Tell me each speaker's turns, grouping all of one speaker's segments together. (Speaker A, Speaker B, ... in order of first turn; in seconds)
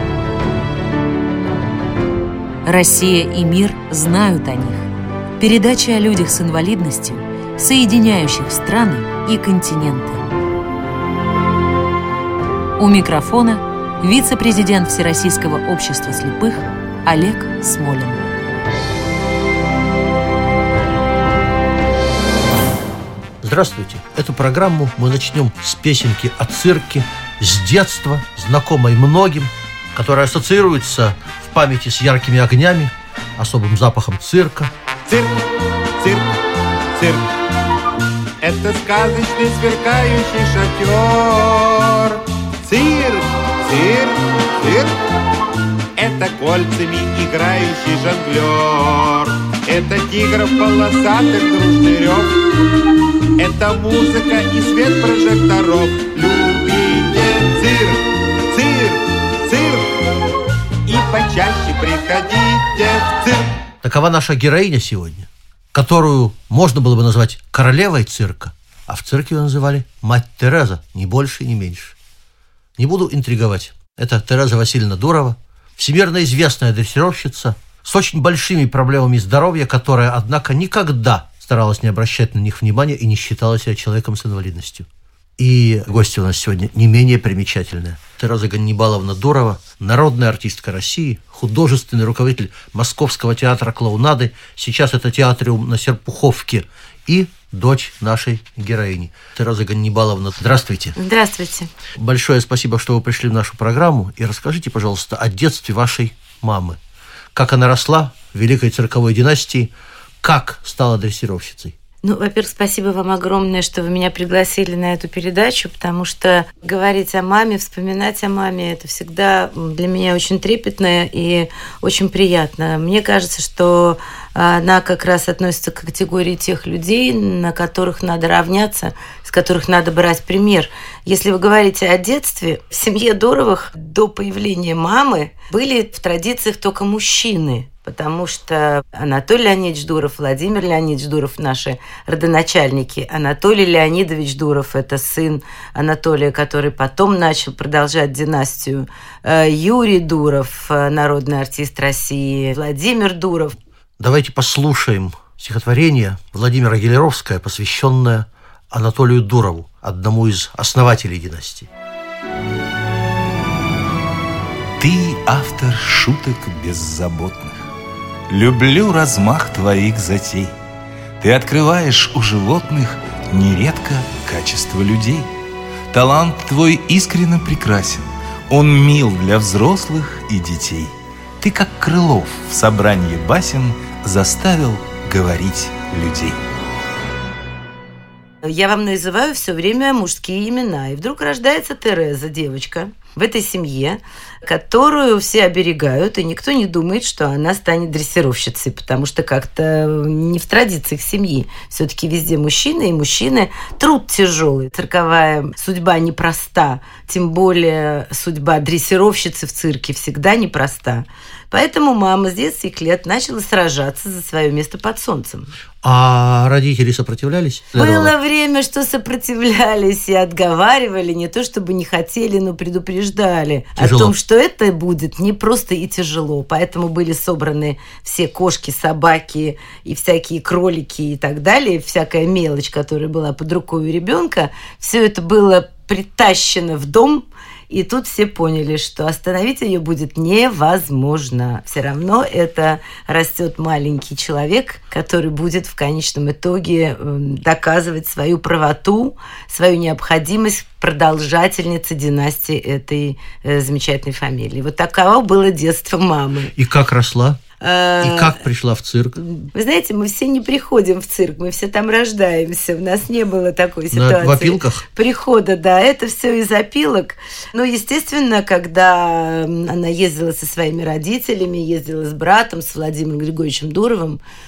Speaker A: 2.6-10.2, 12.8-18.2
Speaker B: 23.4-34.7, 63.8-71.9, 72.8-101.0, 102.0-106.8, 107.3-111.7, 154.0-161.7, 215.8-218.1, 223.8-224.1, 256.5-257.4, 258.0-259.2, 263.9-264.8
Speaker C: 35.0-35.4, 36.0-36.3, 36.9-37.3, 38.4-45.0, 46.0-52.4, 53.4-60.0, 60.9-63.5
Speaker D: 101.0-101.7, 112.0-153.6, 188.4-215.5, 217.8-256.5, 257.6-258.4, 259.2-274.2
Speaker E: 164.8-167.6, 168.3-170.5, 171.2-175.3, 175.9-186.4